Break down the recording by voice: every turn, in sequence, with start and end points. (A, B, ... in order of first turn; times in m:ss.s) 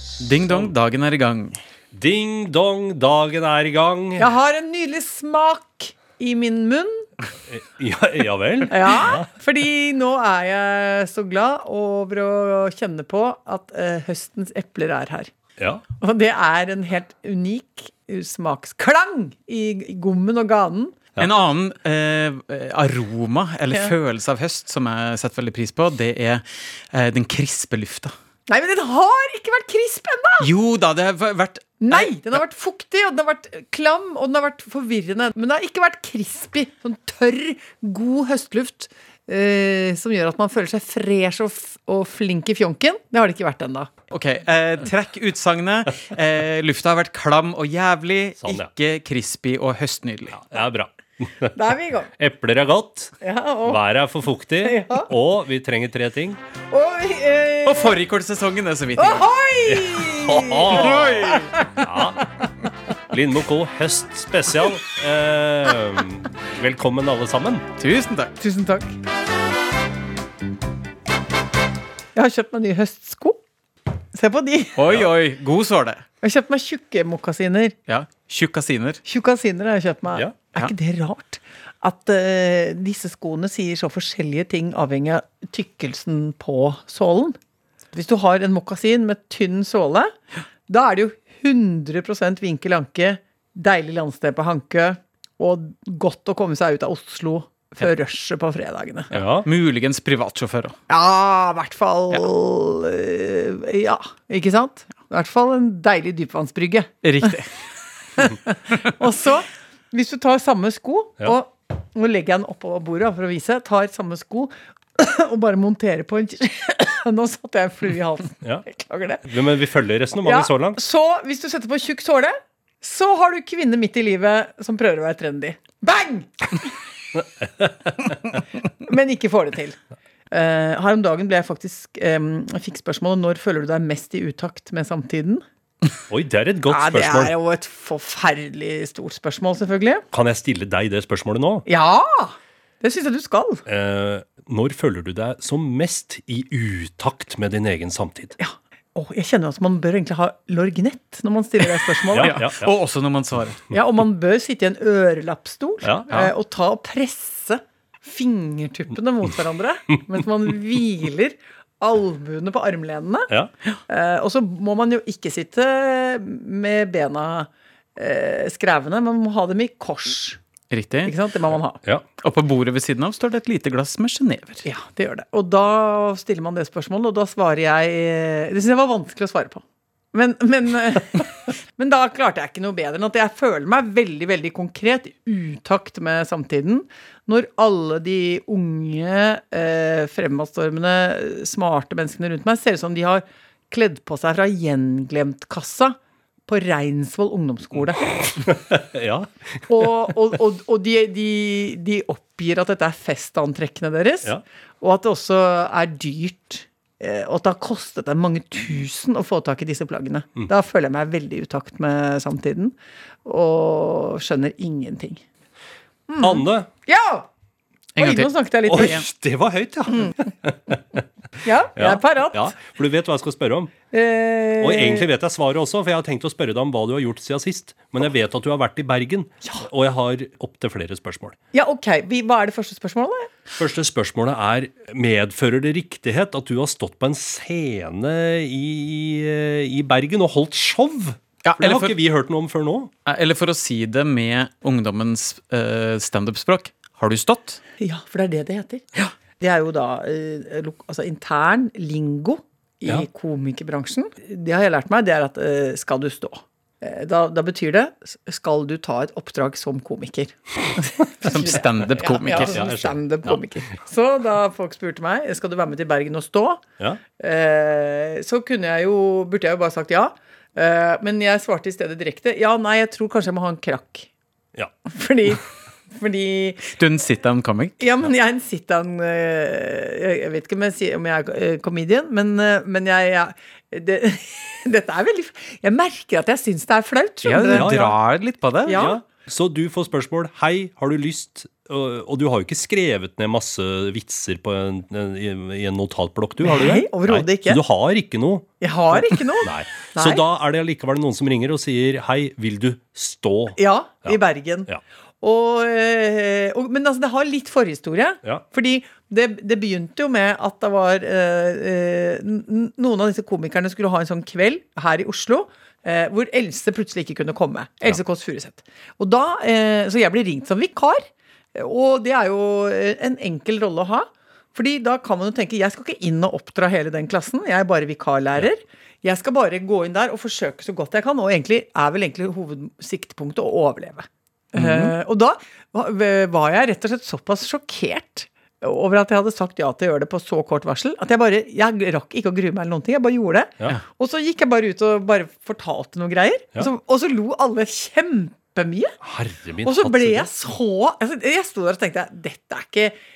0:00.2-0:01.6 A
0:01.9-0:04.3 B
0:04.2-0:07.1 C
0:07.5-0:09.3 B
0:08.7-0:15.3 C
0:15.6-0:15.8 B
0:16.0-0:21.0 C
0:21.2-0:28.1 A
0:28.5-0:30.5 C
0:30.4-0:32.1 A
0:31.8-0:43.9 C
0:44.1-0:50.4 A
0:48.4-0:48.7 B
0:50.3-0:51.6 B
0:51.5-0:52.1 C
0:52.2-0:53.2 B
0:53.2-0:53.8 C
0:53.7-0:56.4 B
0:54.6-0:55.1 C
0:56.7-0:57.9 C
0:57.6-0:59.2 A
0:59.0-1:01.8 C
0:59.6-1:01.2 B
1:00.7-1:01.5 A
1:01.8-1:02.3 B
1:03.1-1:07.6 B
1:07.8-1:08.3 A
1:08.4-1:09.0 C
1:12.1-1:13.4 C
1:14.1-1:14.8 C
1:14.8-1:16.0 A
1:16.2-1:17.8 C
1:17.9-1:19.0 A
1:19.0-1:27.4 C
1:27.9-1:30.1 C
1:30.7-1:39.1 C
1:39.1-1:39.5 B
1:39.4-1:40.8 A
1:40.9-1:47.3 C
1:47.0-1:47.5 A
1:48.2-1:59.4 C
1:59.3-2:00.8 B
2:00.2-2:06.7 C
2:08.8-2:09.8 C
2:10.3-2:15.4 C
2:16.1-2:17.3 B
2:16.7-2:20.0 C
2:20.1-2:21.6 B
2:21.6-2:23.6 C
2:23.6-2:28.4 B
2:28.4-2:32.4 C
2:32.1-2:32.7 B
2:32.2-2:33.6 A
2:33.7-2:43.3 C
2:35.8-2:36.2 B
2:43.9-2:50.4 C
2:50.7-2:51.1 A
2:51.0-2:51.8 C
2:52.2-2:54.6 A
2:54.6-3:18.4 C
3:18.4-3:19.6 B
3:19.7-3:35.2 C
3:36.1-3:37.3 C
3:36.2-3:36.7 B
3:38.0-3:39.0 A
3:38.0-3:39.0 C
3:38.7-3:41.0 B
3:41.4-3:42.5 C
3:41.8-3:43.7 B
3:43.9-3:45.1 C
3:44.6-3:51.4 B
3:51.5-3:53.3 C
3:53.6-4:02.9 B
4:01.4-4:01.9 A
4:03.0-4:07.6 A
4:07.8-4:08.8 C
4:09.4-4:26.6 C
4:21.2-4:22.6 A
4:22.4-4:23.4 B
4:27.2-4:34.1 C
4:34.8-4:36.7 C
4:36.8-4:37.8 A
4:37.8-4:47.9 C
4:47.2-4:48.8 A
4:47.5-4:47.9 B
4:48.6-4:49.0 C
4:48.7-5:04.8 B
4:56.4-4:57.6 C
4:58.6-5:00.2 C
5:03.6-5:04.7 C
5:05.2-5:48.9 C
5:34.6-5:34.9 A
5:49.0-5:50.3 B
5:49.6-5:53.0 C